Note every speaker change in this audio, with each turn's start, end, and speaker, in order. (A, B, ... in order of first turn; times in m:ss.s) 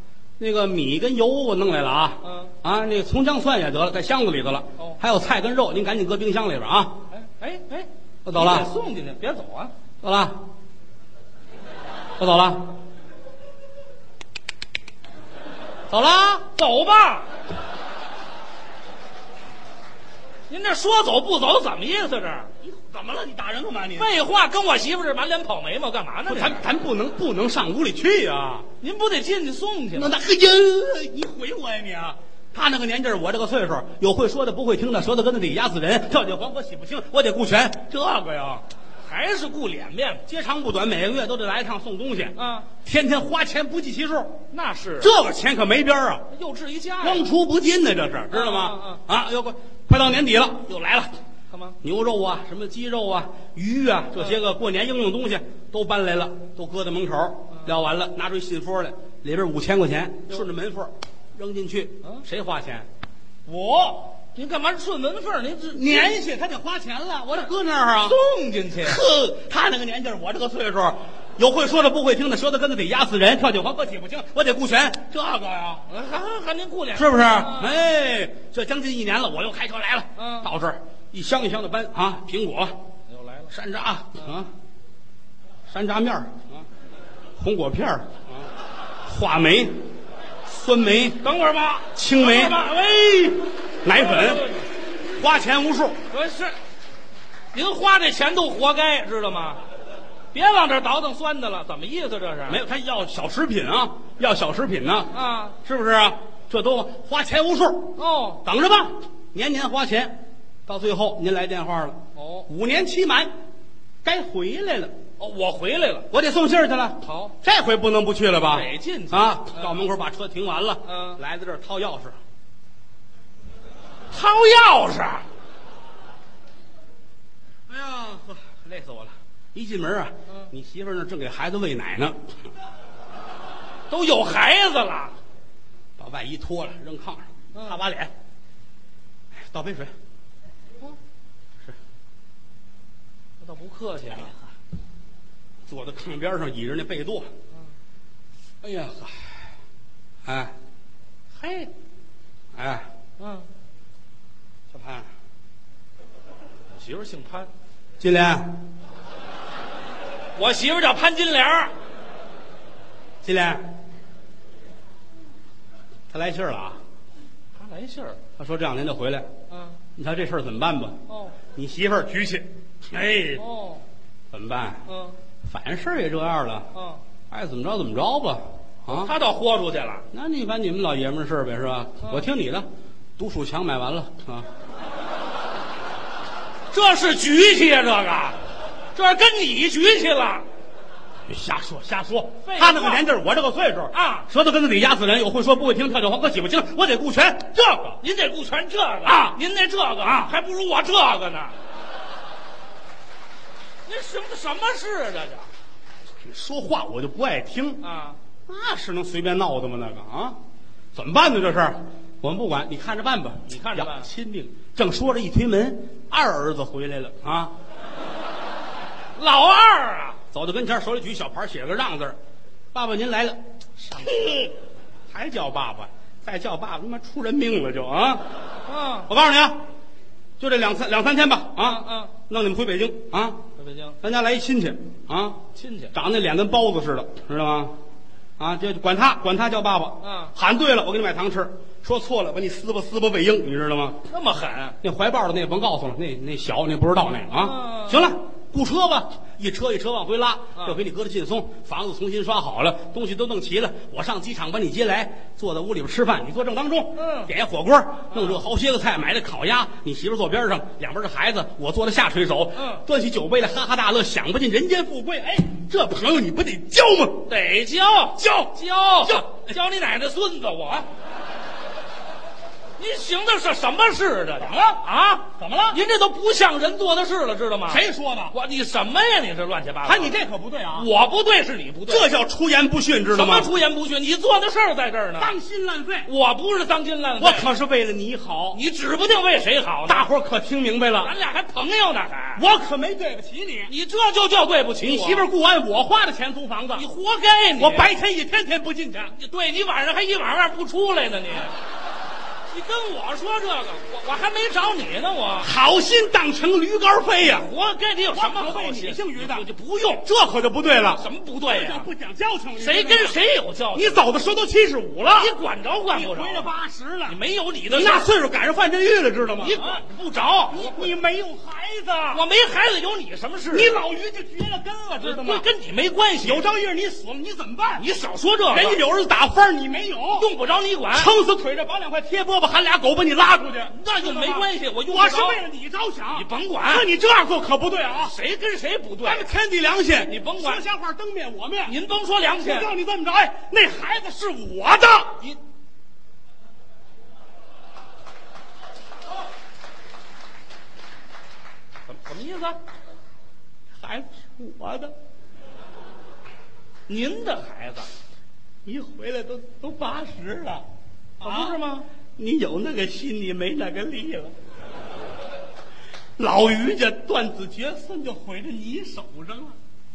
0:00.4-0:07.1 A
0:02.2-0:02.5 B
0:07.1-0:09.7 B
0:08.2-0:08.7 A
0:10.0-0:10.4 A
0:12.2-0:12.8 A
0:15.9-0:16.5 A
0:16.6-0:17.3 B
0:20.5-0:22.5 B
0:22.6-0:24.1 A
0:24.0-0:26.6 B
0:26.3-0:28.7 A
0:28.8-0:30.2 B
0:30.0-0:38.6 A
0:39.0-0:40.2 B
0:40.3-0:44.4 A
0:42.4-0:42.7 B
0:44.5-0:45.1 B
0:45.0-0:46.3 A
0:46.3-0:47.3 B
0:47.0-0:51.1 A
0:48.3-0:49.0 B
0:51.5-0:51.8 B
0:51.8-1:02.9 A
1:03.5-1:06.2 B
1:05.7-1:08.2 A
1:08.0-1:09.0 B
1:08.8-1:15.9 A
1:15.9-1:17.8 B
1:17.0-1:22.8 A
1:20.2-1:20.5 B
1:23.1-1:23.5 B
1:23.5-1:24.5 A
1:25.7-1:26.6 A
1:27.4-1:28.3 A
1:29.0-1:29.9 A
1:30.5-1:31.2 A
1:31.2-1:34.7 B
1:32.0-1:32.6 A
1:33.8-1:34.5 A
1:35.2-1:36.0 A
1:36.1-1:36.6 B
1:37.5-1:39.6 B
1:40.3-1:42.6 B
1:42.5-1:53.3 A
1:45.1-1:45.6 B
1:48.0-1:48.4 B
1:52.2-1:52.5 B
1:54.0-1:54.9 A
1:55.2-1:56.1 B
1:56.1-2:02.2 A
1:57.0-1:57.3 B
1:58.5-1:59.9 B
2:00.8-2:01.2 B
2:04.1-2:05.3 B
2:07.7-2:12.2 A
2:13.9-2:15.2 B
2:16.0-2:18.1 A
2:17.5-2:17.8 B
2:19.3-2:19.9 A
2:23.4-2:24.5 B
2:25.7-2:27.3 A
2:28.6-2:29.4 A
2:30.2-2:30.6 A
2:31.4-2:31.7 B
2:32.6-2:32.9 A
2:33.2-2:33.5 B
2:34.7-2:35.1 A
2:36.7-2:37.5 B
2:38.0-2:38.6 A
2:40.4-2:41.7 B
2:43.2-2:43.8 A
2:46.1-2:46.8 A
2:47.6-2:48.2 B
2:48.4-2:49.3 A
2:49.5-2:49.8 B
2:50.0-2:51.0 A
2:51.1-2:51.4 B
2:51.6-2:53.4 A
2:53.4-2:53.8 B
2:54.3-2:54.9 A
2:54.9-2:55.2 B
2:55.4-2:56.7 A
2:56.7-2:57.0 B
2:57.3-2:59.2 A
2:58.9-3:00.1 B
3:00.1-3:04.5 A
3:02.0-3:02.3 B
3:06.7-3:08.4 B
3:08.9-3:10.5 B
3:11.3-3:18.0 A
3:12.4-3:13.1 B
3:13.9-3:14.3 B
3:18.0-3:21.6 B
3:19.0-3:19.4 A
3:20.0-3:20.3 A
3:23.9-3:25.5 B
3:26.2-3:27.8 A
3:27.8-3:28.2 B
3:28.5-3:30.4 A
3:30.9-3:37.5 A
3:33.5-3:34.1 B
3:39.2-3:40.2 B
3:40.3-3:42.2 A
3:42.7-3:43.4 A
3:43.9-3:44.5 B
3:44.0-3:44.4 A
3:45.1-3:48.2 A
3:48.7-3:49.1 B
3:49.1-3:49.6 A
3:50.4-3:53.4 A
3:51.6-3:52.1 B
3:53.6-3:54.0 B
3:54.0-3:57.8 A
3:55.5-3:55.9 B
3:58.4-4:04.0 A
4:00.0-4:00.3 B
4:04.1-4:04.8 B
4:04.8-4:27.3 A
4:07.3-4:08.1 B
4:17.0-4:17.3 B
4:18.1-4:18.4 B
4:22.6-4:22.8 B
4:27.3-4:30.9 B
4:28.2-4:29.4 A
4:32.8-4:40.2 B
4:34.5-4:34.8 A
4:35.4-4:35.8 A
4:37.7-4:38.4 A
4:39.8-4:40.9 A
4:40.7-4:42.1 B
4:41.9-4:43.5 A
4:43.1-4:45.4 B
4:45.2-4:46.1 A
4:46.0-4:47.5 B
4:47.2-4:48.6 A
4:48.5-4:50.1 B
4:49.9-4:51.1 A
4:51.0-4:52.4 B
4:52.4-4:53.7 A
4:53.7-4:55.3 B
4:54.8-4:56.9 A
4:56.8-4:57.9 B
4:57.6-4:59.1 A
4:59.1-5:01.5 B
5:02.5-5:05.5 B
5:05.4-5:07.5 A
5:07.2-5:10.0 B
5:08.1-5:09.5 A
5:10.0-5:13.2 A
5:11.0-5:11.9 B
5:12.6-5:14.0 B
5:13.8-5:15.3 A
5:15.1-5:16.5 B
5:15.9-5:17.2 A
5:17.1-5:18.1 B
5:17.7-5:19.8 A
5:19.4-5:20.9 B
5:20.5-5:22.2 A
5:22.1-5:23.7 B
5:23.5-5:25.5 A
5:25.0-5:26.4 B
5:26.2-5:27.9 A
5:27.8-5:28.8 B
5:28.5-5:30.3 A
5:30.2-5:31.1 B
5:30.9-5:38.2 A
5:33.7-5:35.4 B
5:36.1-5:36.9 B
5:38.0-5:39.3 B
5:39.0-5:41.8 A
5:40.0-5:40.6 B
5:41.6-5:42.7 B
5:42.4-5:45.2 A
5:51.9-5:52.6 B
5:53.8-5:54.9 A
5:56.9-5:57.9 B
5:58.7-6:00.6 A
6:01.2-6:01.6 A
6:01.2-6:01.9 B
6:02.2-6:04.3 A
6:06.2-6:09.6 A